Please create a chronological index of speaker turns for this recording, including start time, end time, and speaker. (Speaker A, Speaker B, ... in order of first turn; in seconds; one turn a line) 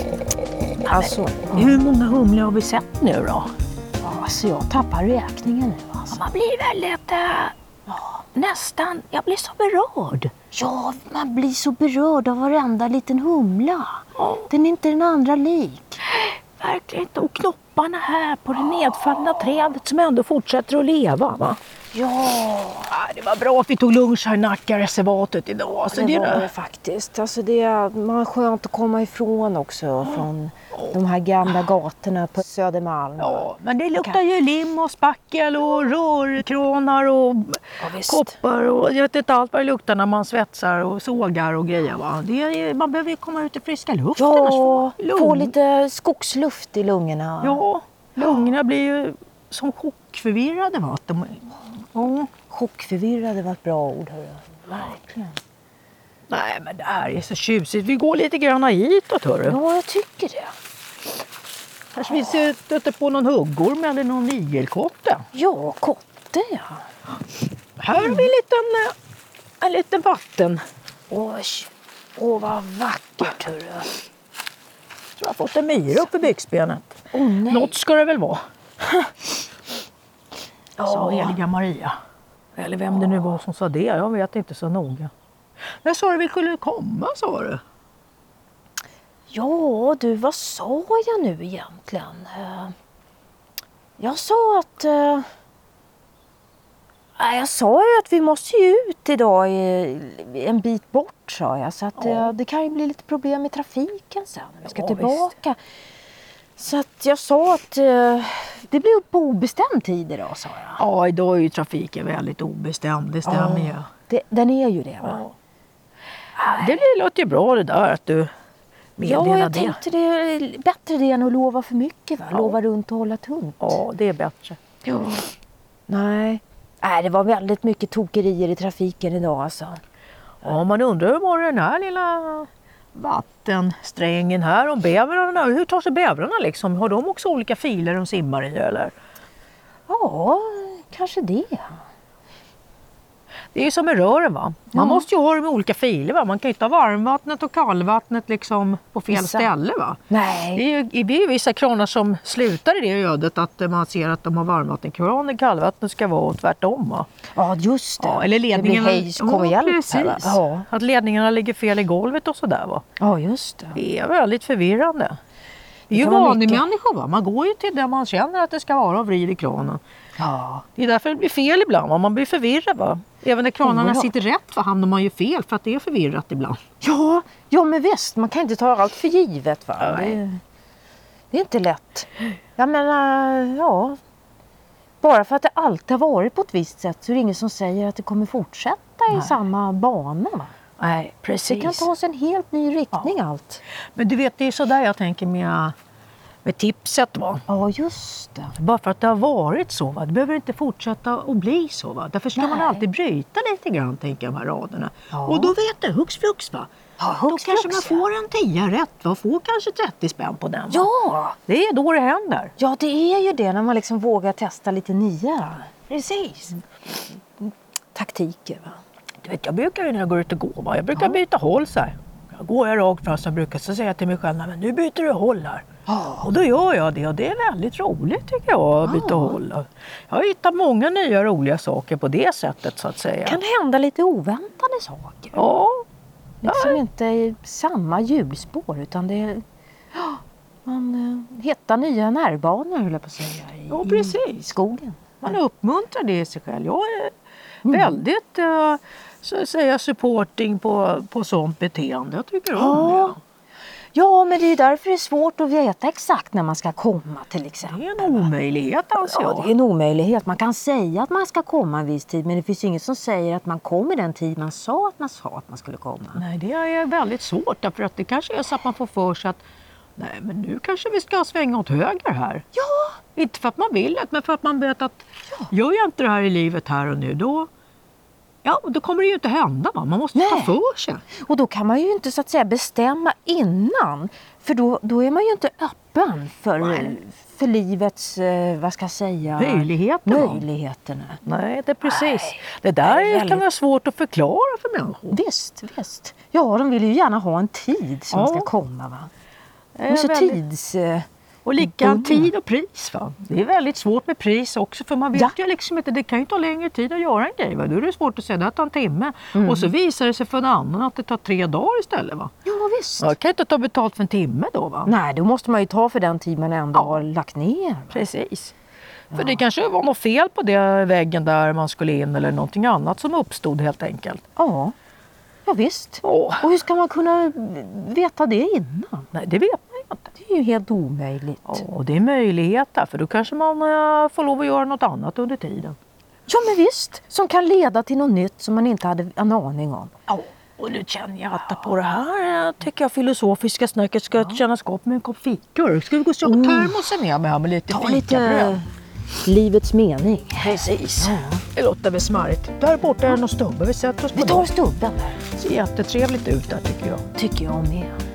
Speaker A: 0.8-1.8
Speaker B: 1.5-3.5
Speaker A: 4.0-6.2
Speaker B: 6.1-7.5
Speaker A: 7.9-8.2
Speaker B: 8.3-10.3
Speaker A: 10.5-16.0
Speaker B: 14.2-14.4
Speaker B: 16.0-21.6
Speaker A: 21.9-22.9
Speaker B: 22.9-26.5
Speaker A: 25.9-33.5
Speaker B: 33.2-45.5
Speaker A: 37.8-38.4
Speaker A: 44.2-47.6
Speaker B: 47.4-52.3
Speaker A: 52.5-55.4
Speaker B: 56.3-59.6
Speaker A: 59.5-60.5
Speaker B: 61.9-65.2
Speaker A: 65.3-66.9
Speaker B: 67.8-68.9
Speaker A: 67.9-68.2
Speaker B: 69.6-70.6
Speaker A: 71.1-73.9
Speaker B: 75.2-78.4
Speaker A: 77.1-77.8
Speaker A: 80.8-81.4
Speaker B: 80.8-82.0
Speaker B: 82.5-85.1
Speaker B: 85.8-87.6
Speaker A: 89.3-92.7
Speaker A: 94.0-95.3
Speaker A: 97.2-105.6
Speaker B: 102.0-102.3
Speaker B: 104.6-105.3
Speaker A: 106.6-110.8
Speaker B: 110.8-113.9
Speaker A: 113.2-115.2
Speaker B: 115.0-115.3
Speaker A: 116.4-116.8
Speaker B: 116.4-118.3
Speaker B: 119.0-119.8
Speaker A: 119.0-123.8
Speaker B: 122.3-122.6
Speaker B: 123.6-124.6
Speaker A: 124.8-125.3
Speaker A: 125.9-129.8
Speaker B: 130.4-138.9
Speaker A: 139.9-141.8
Speaker B: 143.5-157.1
Speaker A: 144.7-145.0
Speaker A: 149.1-149.5
Speaker A: 150.1-150.6
Speaker A: 157.3-160.7
Speaker B: 158.0-162.8
Speaker A: 163.0-163.8
Speaker B: 163.7-165.2
Speaker B: 165.9-169.8
Speaker A: 165.9-166.6
Speaker A: 170.2-170.7
Speaker B: 170.8-176.6
Speaker A: 173.6-174.1
Speaker A: 176.8-180.4
Speaker B: 179.8-180.2
Speaker A: 181.3-184.0
Speaker A: 185.0-190.5
Speaker B: 190.8-191.9
Speaker A: 191.5-193.6
Speaker B: 193.9-195.8
Speaker B: 196.4-197.4
Speaker A: 197.5-198.6
Speaker B: 198.6-206.7
Speaker A: 202.3-202.8
Speaker A: 205.1-205.5
Speaker A: 207.0-208.0
Speaker B: 207.3-210.9
Speaker A: 210.7-211.4
Speaker B: 211.5-212.5
Speaker A: 212.6-218.8
Speaker B: 215.9-216.5
Speaker B: 219.2-233.4
Speaker A: 225.9-226.3
Speaker A: 228.8-229.4
Speaker A: 233.2-235.4
Speaker B: 235.3-235.8
Speaker A: 236.4-239.4
Speaker B: 236.4-236.8
Speaker A: 239.9-245.1
Speaker B: 243.7-244.5
Speaker B: 245.2-253.2
Speaker A: 247.7-248.0
Speaker A: 252.5-253.2
Speaker A: 253.9-258.3
Speaker B: 257.6-259.5
Speaker A: 259.0-266.2
Speaker B: 266.1-269.4
Speaker B: 270.0-272.4
Speaker A: 272.5-273.0
Speaker B: 273.1-277.5
Speaker B: 278.4-281.0
Speaker A: 280.1-280.6
Speaker A: 281.1-291.2
Speaker B: 286.6-286.9
Speaker B: 289.4-290.4
Speaker B: 291.2-295.2
Speaker A: 291.9-293.4
Speaker A: 295.1-299.1
Speaker B: 298.1-298.5
Speaker B: 299.8-300.4
Speaker A: 299.9-301.1
Speaker B: 301.4-312.3
Speaker A: 301.6-302.3
Speaker A: 309.3-309.7
Speaker A: 312.4-313.1
Speaker B: 313.0-314.9
Speaker A: 314.9-318.1
Speaker B: 316.7-317.0
Speaker B: 317.9-318.5
Speaker B: 319.1-324.2
Speaker A: 324.4-324.7
Speaker A: 325.4-329.1
Speaker B: 326.0-326.5
Speaker B: 329.1-330.0
Speaker A: 330.1-331.6
Speaker B: 331.4-335.8
Speaker A: 336.3-339.9
Speaker B: 340.1-348.6
Speaker A: 346.2-346.8
Speaker A: 347.7-348.7
Speaker A: 349.2-351.4
Speaker B: 350.4-354.4
Speaker A: 354.1-355.2
Speaker B: 355.4-357.0
Speaker A: 357.1-358.0